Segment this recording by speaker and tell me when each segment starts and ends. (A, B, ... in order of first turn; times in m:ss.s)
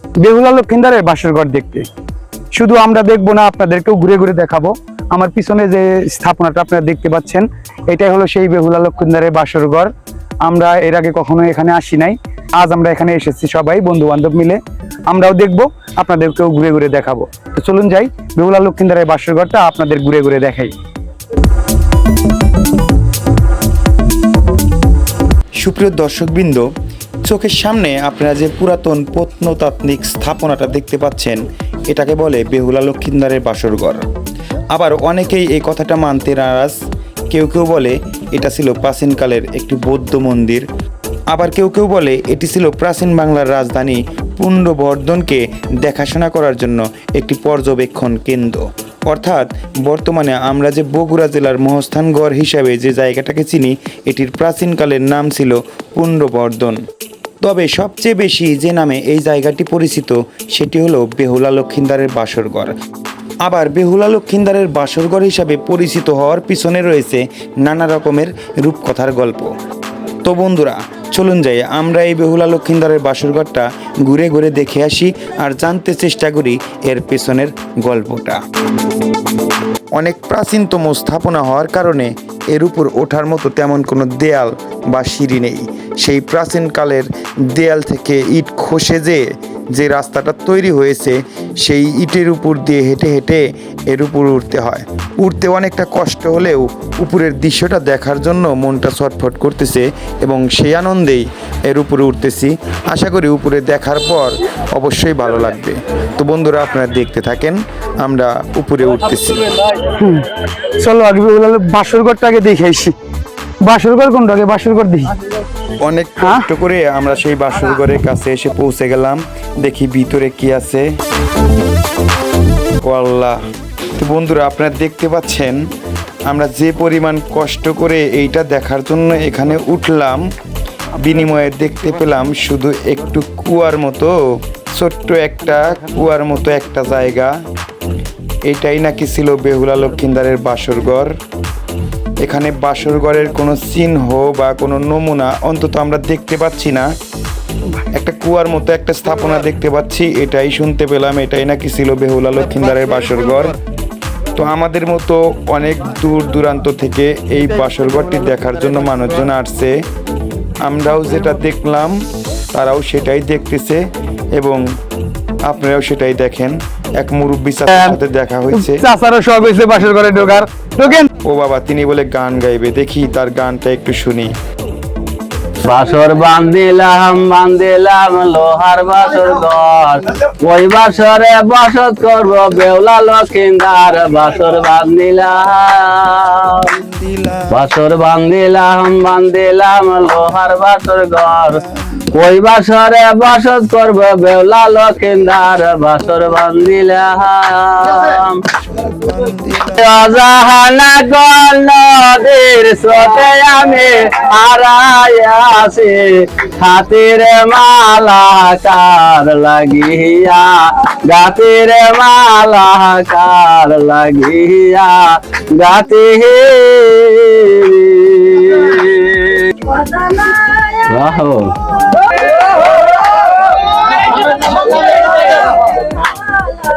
0:00.2-0:01.9 A
0:02.5-0:09.9 A
0:10.4-0:20.7 A
0:25.6-0:26.7 B
0:27.2-0:34.1 B
0:34.7-0:36.8 B
0:37.3-0:40.6 B
0:41.3-0:56.8 B
0:57.4-1:02.7 B
1:03.4-1:09.5 B
1:10.2-1:18.4 B
1:19.9-1:49.5 B
1:49.9-1:52.9 A
1:53.6-1:55.1 A
1:55.8-2:00.8 B
1:56.2-1:56.5 A
2:02.8-2:03.4 B
2:04.0-2:05.6 B
2:06.3-2:10.2 B
2:10.9-2:17.3 B
2:18.5-2:21.1 B
2:22.2-2:26.9 B
2:27.9-2:33.6 B
2:34.4-2:39.8 B
2:40.6-2:42.0 B
2:42.5-2:44.6 B
2:45.4-2:48.8 B
2:48.5-2:51.1 A
2:51.2-2:54.3 B
2:55.6-3:06.7 C
3:06.6-3:07.6 B
3:07.5-3:18.4 C
3:11.5-3:12.0 B
3:18.5-3:19.9 B
3:19.7-3:41.6 C
3:44.4-3:45.3 C